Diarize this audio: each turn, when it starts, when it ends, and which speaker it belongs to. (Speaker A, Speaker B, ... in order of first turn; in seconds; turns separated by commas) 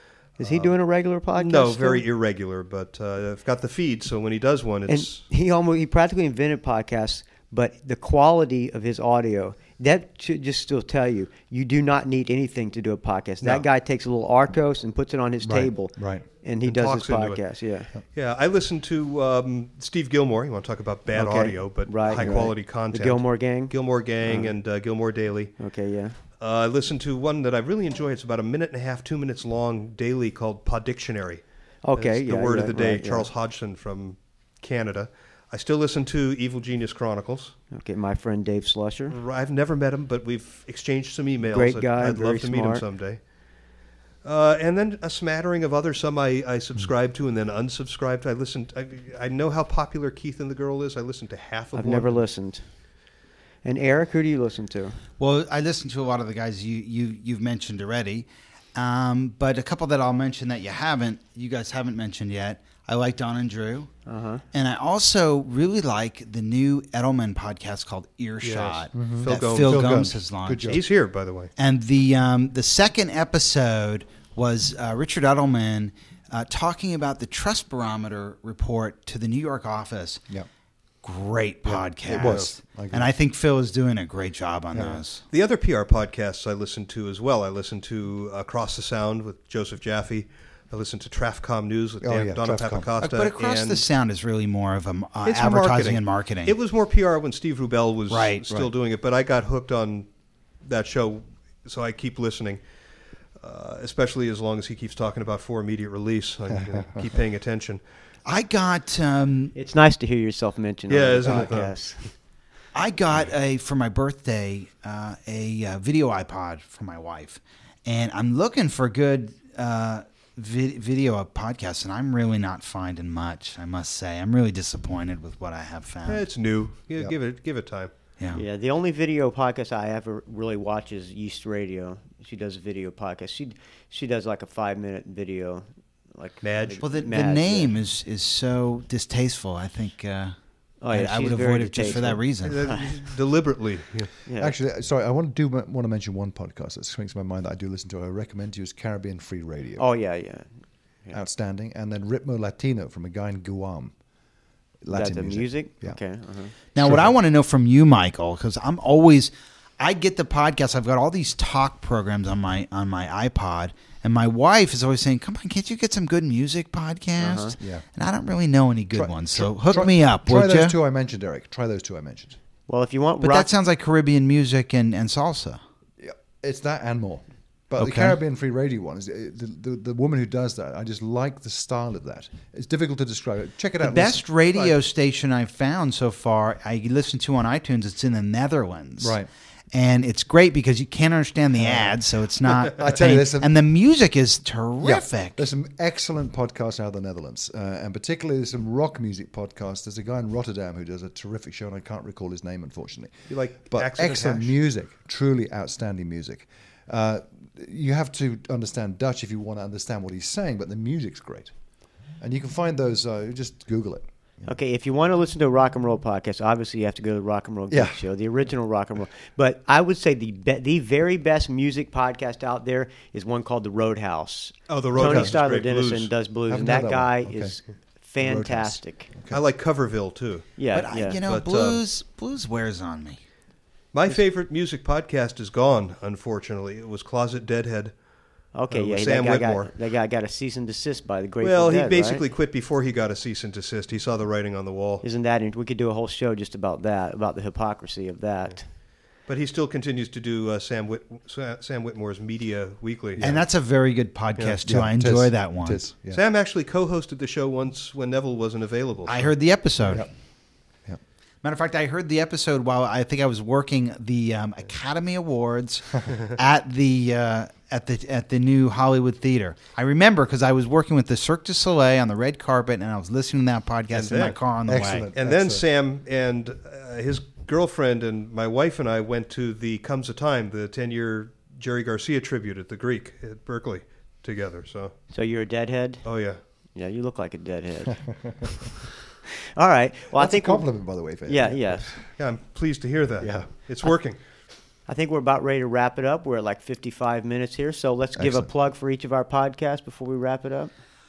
Speaker A: 0.4-0.8, Speaker B: 0.4-2.1, Speaker A: 1.4-5.2, Speaker B: 4.9-17.9, Speaker C: 15.4-16.2, Speaker A: 16.6-17.5, Speaker A: 18.1-25.6, Speaker B: 21.1-24.5, Speaker B: 25.6-26.2, Speaker A: 26.3-37.5, Speaker B: 31.8-33.3, Speaker B: 37.7-39.2, Speaker A: 39.1-52.2, Speaker B: 41.4-42.8, Speaker B: 51.7-52.8, Speaker B: 53.6-55.0, Speaker D: 55.2-64.0, Speaker B: 64.1-64.4, Speaker D: 64.5-70.8, Speaker A: 68.4-70.2, Speaker C: 68.9-70.8, Speaker A: 70.7-71.5, Speaker D: 71.6-80.2, Speaker D: 81.0-85.2, Speaker C: 81.7-83.1, Speaker A: 82.1-82.5, Speaker C: 84.7-85.0, Speaker A: 85.3-93.8, Speaker C: 92.0-92.9, Speaker D: 93.0-96.6, Speaker A: 95.2-102.6, Speaker D: 98.1-98.4, Speaker A: 103.4-107.8, Speaker D: 108.2-109.5, Speaker B: 109.5-112.1, Speaker A: 110.9-112.0, Speaker D: 112.7-126.3, Speaker A: 126.1-127.9, Speaker B: 128.3-137.7, Speaker A: 136.4-136.8, Speaker D: 136.8-142.8, Speaker B: 140.8-143.0, Speaker A: 142.4-144.2, Speaker B: 144.3-144.6, Speaker C: 144.4-149.9, Speaker B: 149.8-151.2, Speaker C: 151.1-153.9, Speaker C: 154.8-156.0, Speaker B: 154.9-156.5, Speaker D: 156.8-170.7, Speaker C: 156.8-157.1, Speaker B: 167.2-167.6, Speaker C: 167.6-167.8, Speaker C: 168.9-172.4, Speaker B: 172.7-173.5, Speaker D: 173.2-175.6, Speaker C: 176.0-184.3, Speaker D: 177.8-178.2, Speaker D: 183.8-189.2, Speaker C: 189.0-189.3, Speaker D: 189.7-195.4, Speaker C: 191.6-192.0, Speaker C: 192.7-193.5, Speaker C: 194.8-211.6, Speaker A: 203.3-204.5, Speaker C: 212.2-214.5, Speaker B: 214.5-229.1, Speaker C: 217.7-218.0, Speaker A: 224.7-226.1, Speaker C: 225.0-225.3, Speaker C: 226.5-227.7, Speaker C: 228.2-229.4, Speaker A: 229.3-230.5, Speaker B: 230.6-231.2, Speaker D: 230.7-233.2, Speaker A: 231.3-231.8, Speaker A: 233.9-239.7, Speaker B: 238.5-242.2, Speaker A: 241.4-245.0, Speaker B: 245.0-248.7, Speaker A: 249.2-253.3, Speaker C: 253.2-253.5, Speaker D: 253.2-255.9, Speaker C: 254.7-256.2, Speaker A: 256.1-259.3, Speaker D: 259.1-260.1, Speaker D: 261.4-275.1, Speaker A: 273.9-274.4, Speaker C: 274.7-275.6, Speaker A: 275.1-285.0, Speaker B: 285.1-288.7, Speaker A: 286.0-286.4, Speaker B: 289.6-291.9, Speaker C: 290.1-292.0, Speaker A: 292.2-294.2, Speaker C: 293.2-293.9, Speaker B: 294.9-300.7, Speaker C: 298.2-298.5